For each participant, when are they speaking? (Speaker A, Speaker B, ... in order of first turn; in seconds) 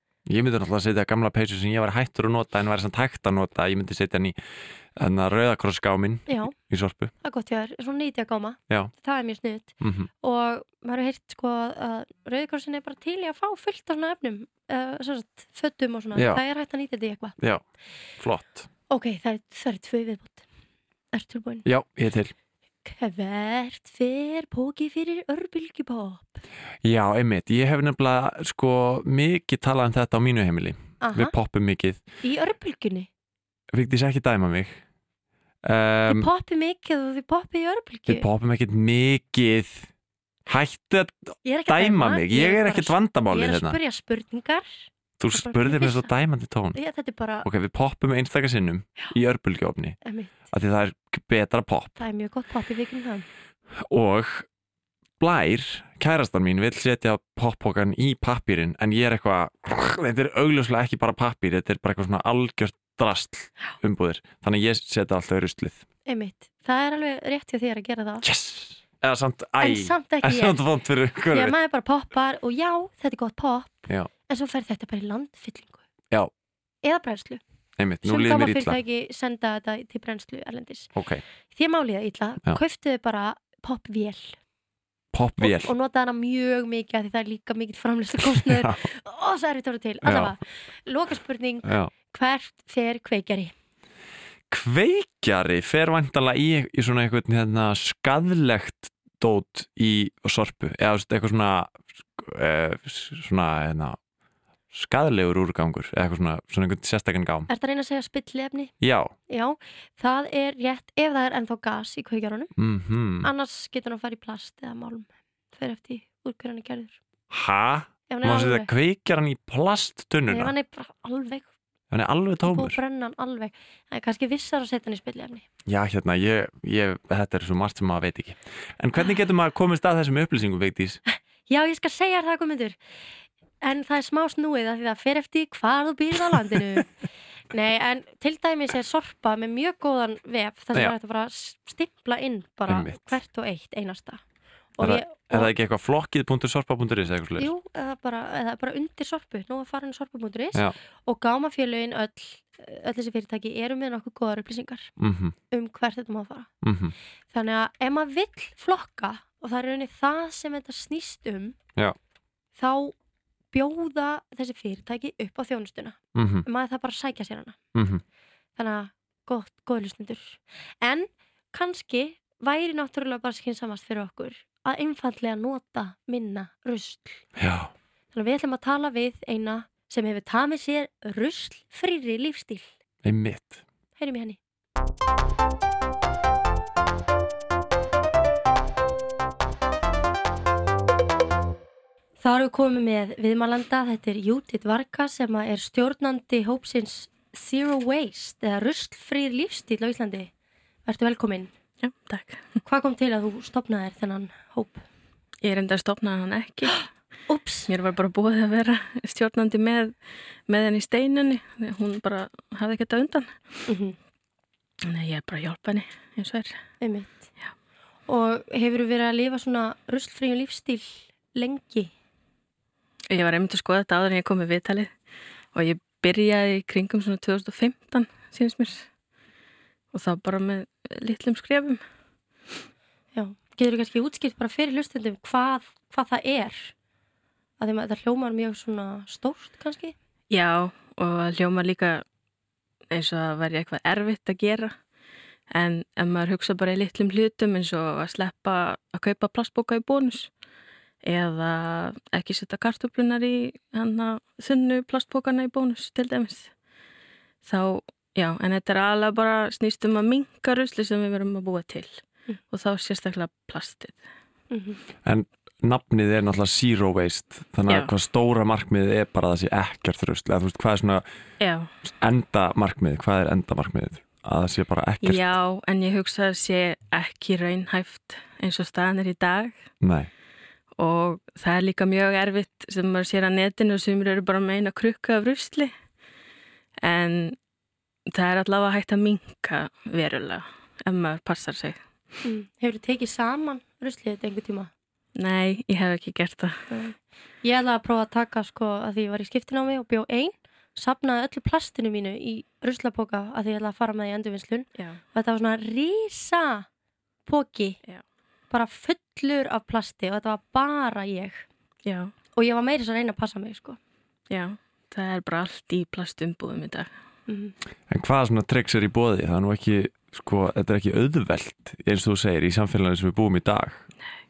Speaker A: 0.3-4.4, 5.0-7.1, 9.8-10.1, 16.1-16.4, 18.2-18.7, 21.7-22.3, 26.8-32.0, 33.7-34.8, 35.6-36.3, 38.1-39.9, 40.5-43.8, 45.2-46.8, 47.4-50.0, 50.5-52.0, 53.8-54.5, 55.2-65.8, 68.2-71.5, 77.8-78.8, 81.0-81.2, 85.1-85.7, 88.2-88.8, 90.0-90.3, 91.6-91.9, 94.5-104.0, 104.7-107.5, 108.8-109.1, 112.6-113.3, 117.3-120.5, 121.9-122.8, 125.7-131.0, 142.7-143.2, 144.8-147.5, 155.0-155.3, 156.6-156.9, 166.2-166.5, 167.8-168.0, 177.4-177.7, 183.0-183.6, 265.1-271.0, 271.9-275.4, 279.8-280.1, 317.9-323.9
Speaker B: 6.3-6.5, 7.2-17.4, 18.9-20.4, 21.1-21.7, 22.8-26.4, 31.0-31.3, 32.2-33.1, 36.1-38.3, 41.5-46.1, 46.8-47.5, 50.0-50.5, 52.0-53.3, 66.1-68.2, 69.6-70.6, 71.3-75.8, 76.8-77.4, 78.0-80.9, 81.5-84.4, 85.4-93.5, 107.5-108.7, 109.3-112.5, 113.2-117.0, 118.1-118.7, 120.3-121.5, 122.4-125.5, 131.1-132.8, 133.6-136.9, 137.5-144.2, 144.8-145.5, 147.4-154.9, 155.5-156.5, 157.3-161.6, 162.6-162.9, 163.5-167.6, 168.6-177.2, 178.1-182.7, 184.0-184.4, 192.2-200.3, 200.8-201.5, 202.7-204.8, 207.3-207.7, 213.7-214.0, 216.8-217.3, 218.1-221.9, 233.1-236.7, 237.6-239.9, 264.5-264.8, 292.2-294.7, 296.7-306.7, 307.3-307.8, 308.5-311.4, 312.4-313.8, 317.3-317.5
Speaker C: 201.8-202.5, 205.4-206.9, 207.7-209.9, 210.5-213.4, 214.8-216.6, 223.1-224.9, 225.5-228.9, 229.9-231.8, 240.3-242.0, 242.9-244.7, 245.5-250.3, 251.0-256.5, 257.4-264.0, 271.4-271.7, 275.0-279.6, 280.8-285.7, 286.8-287.4, 288.1-291.8, 295.2-296.8, 311.9-312.1, 314.3-316.9